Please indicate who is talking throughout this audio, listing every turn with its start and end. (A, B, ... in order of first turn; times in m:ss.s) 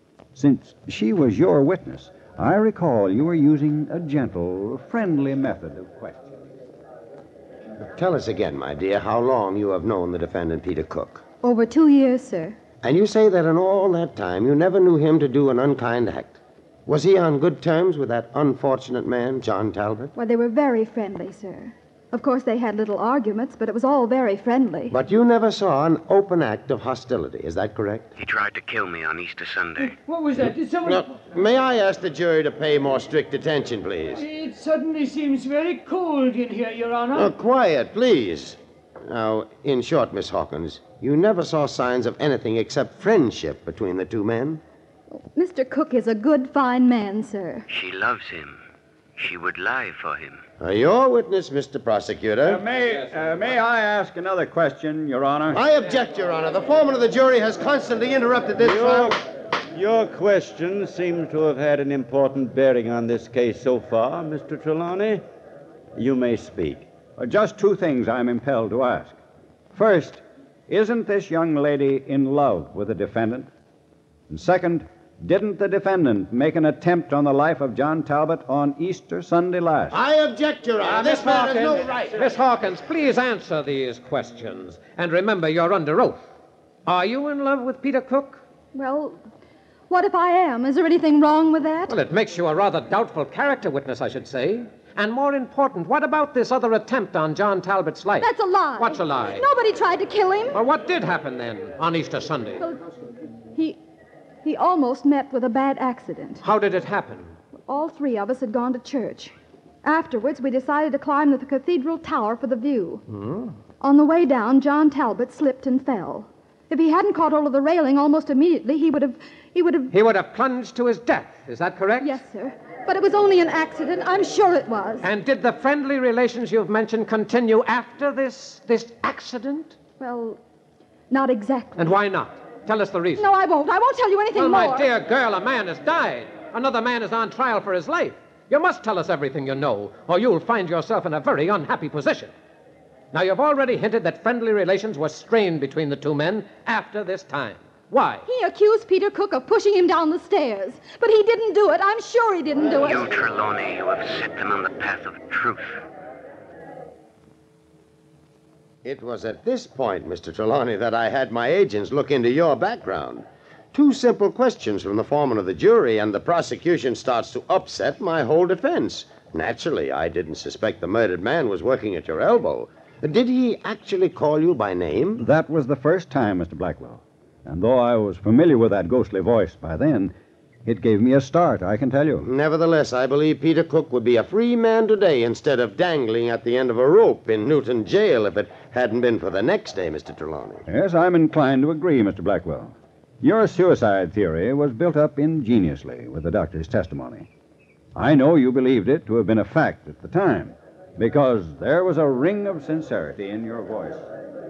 0:00.3-0:06.4 A
0:07.8-0:11.2 B
0:11.4-0:12.6 C
0:12.8-0:20.1 B
0:20.2-0:25.0 C
0:24.9-0:28.1 B
0:28.2-0:30.0 D
0:29.8-0:31.1 E
0:30.8-0:34.2 B
0:34.1-0:37.3 E
0:37.1-0:44.6 B
0:45.2-0:47.6 C
0:47.7-0:48.6 D
0:49.2-0:50.4 D
0:50.6-0:52.6 B
0:52.4-0:55.6 A
0:55.5-0:59.2 B
0:58.6-0:59.2 F
0:59.7-1:05.2 F
1:06.0-1:06.9 F
1:07.2-1:09.2 A
1:09.7-1:13.5 A
1:14.3-1:20.0 A
1:19.9-1:22.2 B
1:20.8-1:26.2 G
1:26.9-1:28.4 G
1:28.7-1:29.2 C
1:29.9-1:32.0 C
1:31.9-1:39.4 G
1:38.2-1:40.6 C
1:40.5-1:42.6 G
1:44.4-1:46.4 C
1:46.4-1:47.3 G
1:47.7-1:53.0 C
1:53.1-1:53.5 G
1:53.8-1:59.9 C
1:59.9-2:02.2 G
2:02.0-2:05.1 C
2:05.0-2:09.8 G
2:10.0-2:10.4 C
2:11.1-2:12.0 C
2:11.8-2:13.3 G
2:13.2-2:14.9 C
2:14.3-2:22.3 G
2:23.1-2:28.2 G
2:28.3-2:33.1 C
2:32.7-2:35.8 D
2:38.8-2:55.2 B
2:55.2-3:00.1 A
3:00.6-3:02.3 A
3:02.2-3:10.6 B
3:10.7-3:17.3 A
3:18.0-3:24.1 A